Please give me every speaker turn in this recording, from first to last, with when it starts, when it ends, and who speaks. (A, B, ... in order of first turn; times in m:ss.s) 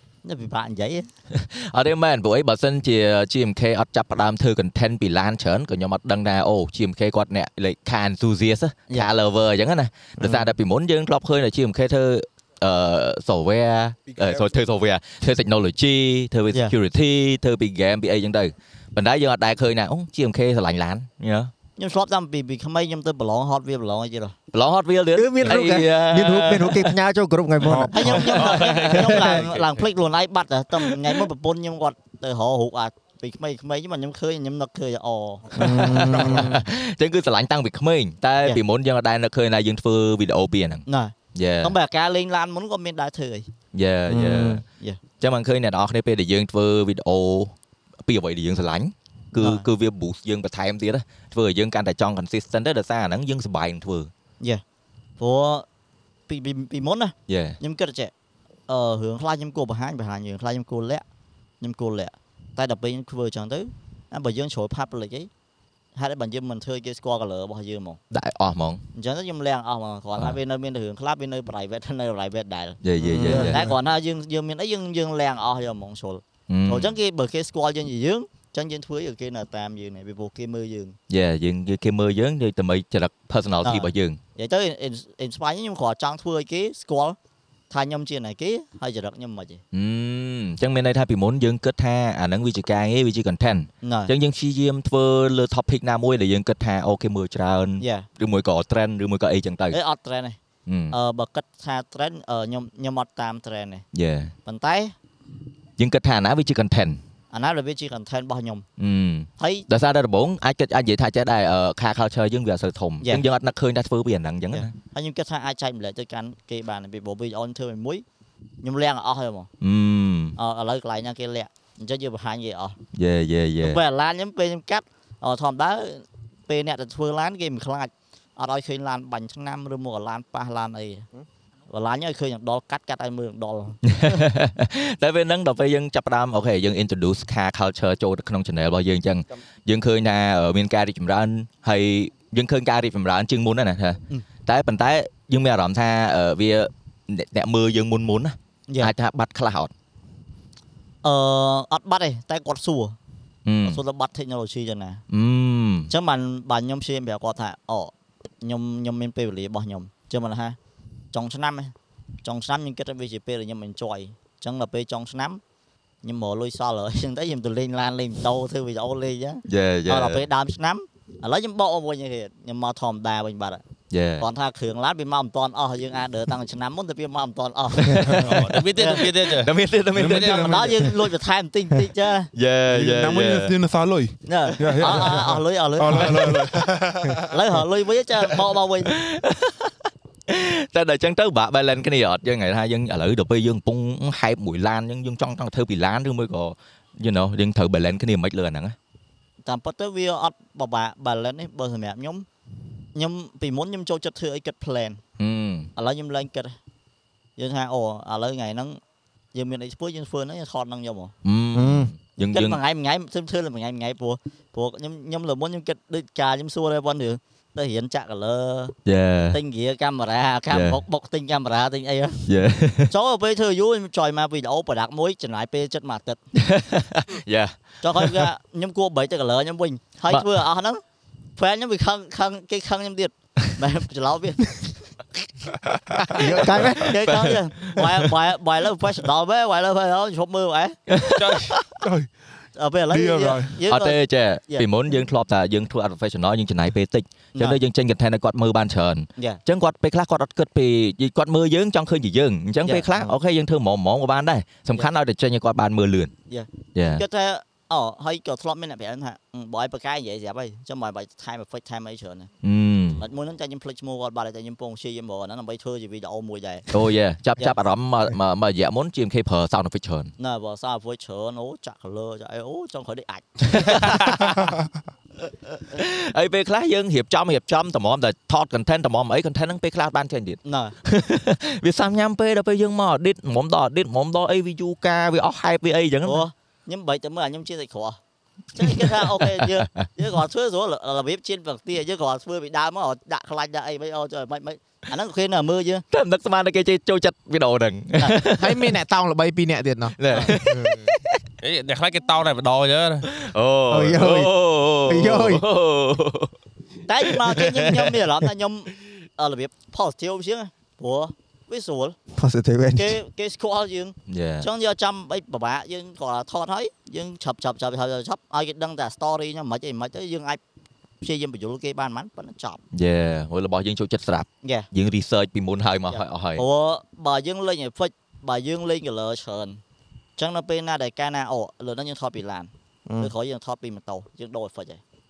0:00.2-0:01.1 A
0:01.3-0:21.5 B
0:14.1-0:14.5 C
0:21.8-0:24.4 A
0:24.5-0:26.9 B
0:25.1-0:28.3 D
0:27.6-0:28.3 C
0:27.9-0:35.6 A
0:28.4-0:29.7 E
0:28.9-0:29.4 D
0:35.5-0:36.5 C
0:35.5-0:36.6 D
0:35.6-0:41.7 B
0:40.8-0:43.5 A
0:43.7-0:44.6 B
0:44.1-0:44.6 D
0:45.2-0:47.5 B
0:48.0-0:54.1 B
0:49.4-0:49.7 A
0:55.2-0:55.6 A
0:56.3-0:58.1 A
0:57.3-0:57.6 B
0:58.7-1:01.0 A
1:01.6-1:05.3 A
1:05.9-1:08.0 A
1:08.1-1:08.8 B
1:08.9-1:21.0 A
1:12.8-1:13.6 B
1:13.0-1:13.7 D
1:16.5-1:16.9 B
1:21.1-1:24.2 B
1:23.6-1:27.2 A
1:27.7-1:29.6 A
1:29.7-1:39.8 B
1:33.8-1:34.1 A
1:37.8-1:38.1 A
1:39.7-1:40.4 A
1:40.7-1:41.0 B
1:40.9-1:43.8 A
1:43.9-1:44.3 B
1:44.4-1:44.9 A
1:45.8-1:47.0 B
1:47.3-1:48.6 A
1:48.8-1:54.7 B
1:49.4-1:49.6 A
1:54.5-1:58.0 A
1:58.6-1:59.5 A
1:59.6-2:00.4 B
2:00.4-2:02.8 A
2:02.9-2:03.8 B
2:03.6-2:11.1 A
2:11.7-2:14.2 A
2:13.8-2:29.7 B
2:31.0-2:33.0 A
2:33.4-2:33.8 B
2:33.6-2:35.0 A
2:35.1-2:35.9 B
2:35.9-2:40.6 A
2:41.1-2:41.7 A
2:42.2-2:45.4 A
2:46.0-2:53.6 A
2:49.5-2:50.2 B
2:53.9-2:54.2 B
2:54.2-2:59.1 A
2:57.8-3:00.8 B
2:58.2-3:00.2 E
2:59.9-3:00.9 C
3:00.2-3:02.3 A
3:02.3-3:03.5 B
3:02.7-3:07.3 C
3:04.2-3:06.4 A
3:07.3-3:09.0 A
3:08.9-3:09.7 B
3:10.3-3:18.8 B
3:19.4-3:22.3 A
3:22.9-3:25.0 A
3:25.2-3:25.7 B
3:25.8-3:26.6 A
3:27.4-3:28.8 A
3:29.3-3:31.1 A
3:31.2-3:32.6 B
3:31.5-3:31.9 D
3:32.3-3:38.7 A
3:38.8-3:39.4 B
3:39.3-3:42.2 A
3:40.5-3:40.8 B
3:42.2-3:42.9 B
3:42.9-3:46.2 A
3:46.4-3:48.2 B
3:47.8-3:50.8 A
3:51.4-3:54.7 A
3:56.0-3:58.1 B
3:56.1-3:57.0 D
3:56.7-4:00.8 A
4:00.9-4:01.7 B
4:01.2-4:01.6 E
4:01.8-4:02.1 C
4:02.6-4:04.7 A
4:02.9-4:03.6 C
4:03.7-4:16.1 B
4:07.3-4:07.6 A
4:12.6-4:13.1 A
4:16.3-4:22.3 A
4:16.7-4:17.0 B
4:22.4-4:23.0 B
4:22.9-4:26.7 A
4:26.7-4:30.1 B
4:30.2-4:34.0 A
4:33.5-4:34.5 B
4:35.7-4:46.2 B
4:40.4-4:40.7 A
4:46.0-4:48.0 A
4:48.5-4:55.8 A
4:48.6-4:49.8 B
4:55.9-4:58.8 B
4:58.4-5:00.9 F
5:00.0-5:01.2 B
5:01.4-5:03.1 E
5:03.1-5:06.3 B
5:03.7-5:05.4 D
5:06.9-5:12.0 A
5:07.2-5:07.9 B
5:12.1-5:13.0 D
5:12.8-5:20.4 A
5:14.1-5:14.5 B
5:21.0-5:22.6 A
5:22.7-5:26.4 B
5:25.9-5:29.6 A
5:30.2-5:34.8 A
5:32.8-5:33.1 D